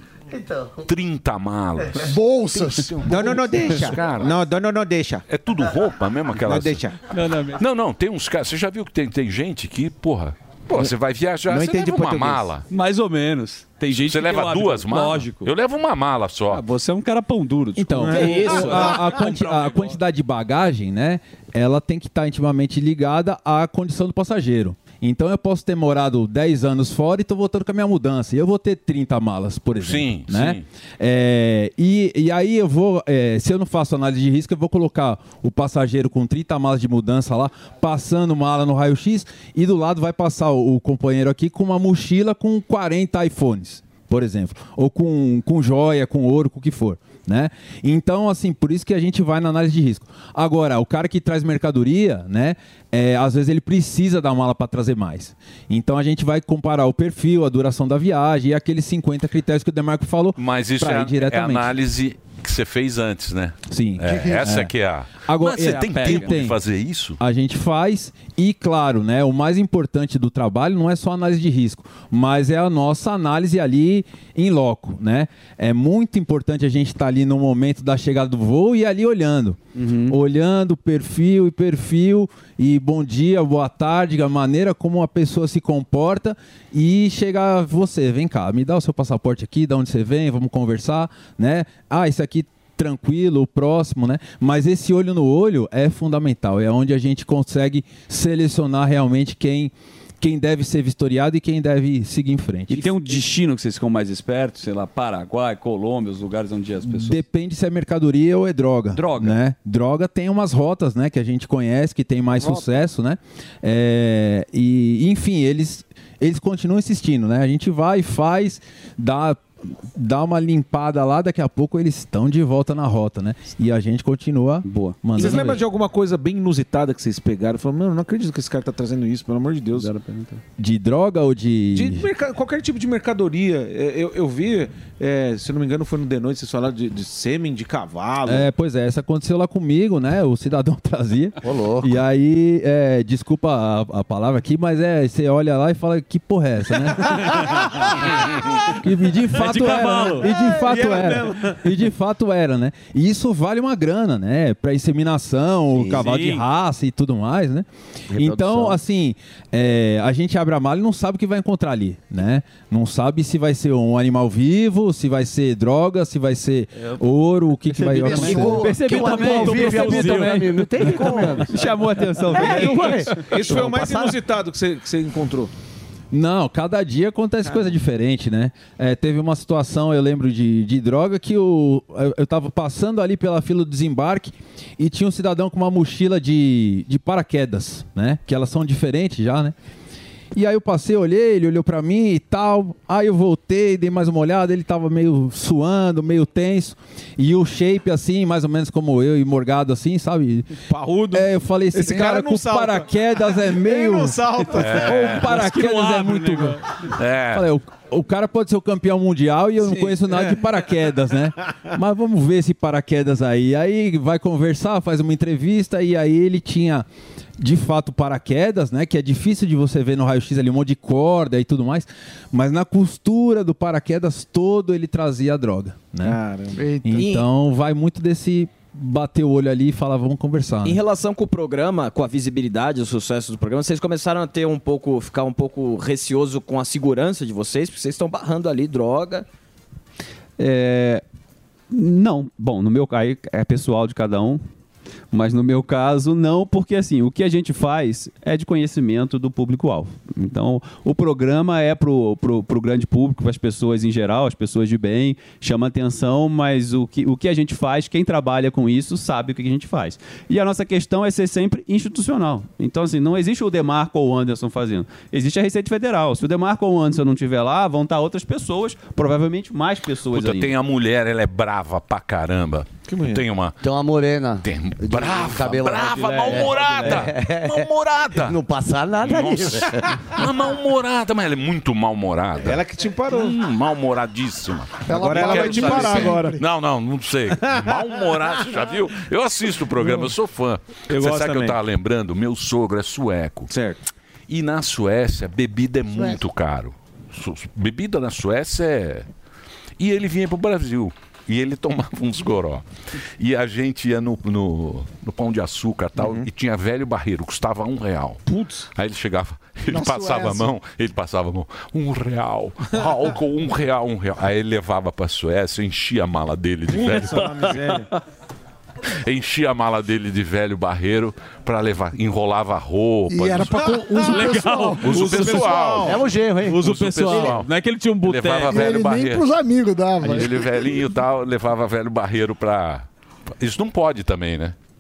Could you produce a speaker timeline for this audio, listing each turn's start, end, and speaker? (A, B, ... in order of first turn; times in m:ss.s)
0:00.3-0:00.8 A
0:00.9-0:02.1 B
0:02.0-0:03.2 C
0:02.9-0:05.2 D
0:03.7-0:04.4 B
0:05.3-0:06.9 B
0:06.4-0:07.0 D
0:07.1-0:07.6 E
0:07.6-0:12.6 B
0:11.5-0:12.4 D
0:12.7-0:15.5 E
0:13.9-0:16.6 B
0:16.5-0:20.0 E
0:17.8-1:01.7 F
0:18.0-0:19.3 D
0:29.7-0:30.6 B
1:00.4-1:07.2 B
1:03.7-1:04.7 F
1:04.0-1:04.5 C
1:05.3-1:06.6 F
1:05.6-1:06.4 E
1:07.2-1:43.2 F
1:19.8-1:20.1 E
1:42.7-1:47.2 E
1:46.8-2:05.6 F
1:48.9-1:49.4 E
2:04.7-2:05.0 E
2:05.1-2:09.9 D
2:09.8-2:10.3 E
2:10.6-2:12.0 F
2:11.7-2:18.5 D
2:18.2-2:27.3 F
2:21.4-2:22.0 A
2:27.3-2:27.8 D
2:28.8-2:48.6 F
2:29.4-2:30.3 E
2:29.9-2:31.6 D
2:35.8-2:36.4 E
2:38.1-2:38.8 A
2:48.0-2:48.8 C
2:48.0-2:51.4 A
2:48.1-2:51.3 E
2:48.7-2:50.2 G
2:51.4-2:53.7 G
2:52.4-2:55.5 D
2:52.4-2:52.7 A
2:52.5-2:53.0 E
2:53.5-2:54.2 A
2:56.1-3:09.5 F
3:10.3-3:20.5 F
3:20.6-3:25.0 D
3:21.1-3:24.2 F
3:24.6-3:25.3 B
3:24.8-3:26.6 F
3:25.2-3:26.6 E
3:27.0-3:27.5 B
3:27.3-3:36.9 F
3:29.6-3:30.4 D
3:37.4-3:46.2 F
3:46.6-3:47.0 C
3:46.8-3:50.8 F
3:46.9-3:47.3 H
3:50.6-3:59.3 H
4:00.4-4:01.0 G
4:01.7-4:04.4 G
4:05.1-4:30.5 G
4:30.1-4:33.6 B
4:32.9-4:33.2 D
4:33.6-4:40.0 A
4:34.4-4:38.4 B
4:36.4-4:36.9 G
4:39.0-4:53.5 B
4:42.4-4:43.4 D
4:44.9-4:46.4 C
4:44.9-4:46.4 D
4:47.4-4:47.8 D
4:49.8-4:50.1 D
4:50.9-4:51.6 D
4:53.5-4:53.8 D
4:54.3-4:59.1 B
4:59.8-5:02.6 B
5:03.2-5:08.2 B
5:06.0-5:06.2 D
5:08.8-5:17.5 B
5:09.7-5:10.5 C
5:16.7-5:17.9 D
5:19.0-5:23.8 B
5:23.1-5:25.4 C
5:24.0-5:25.4 E
5:24.1-5:26.0 D
5:24.8-5:27.5 B
5:25.8-5:26.6 A
5:26.4-5:28.7 E
5:28.0-5:29.3 B
5:28.5-5:30.4 C
5:30.1-5:32.9 B
5:33.4-5:34.6 B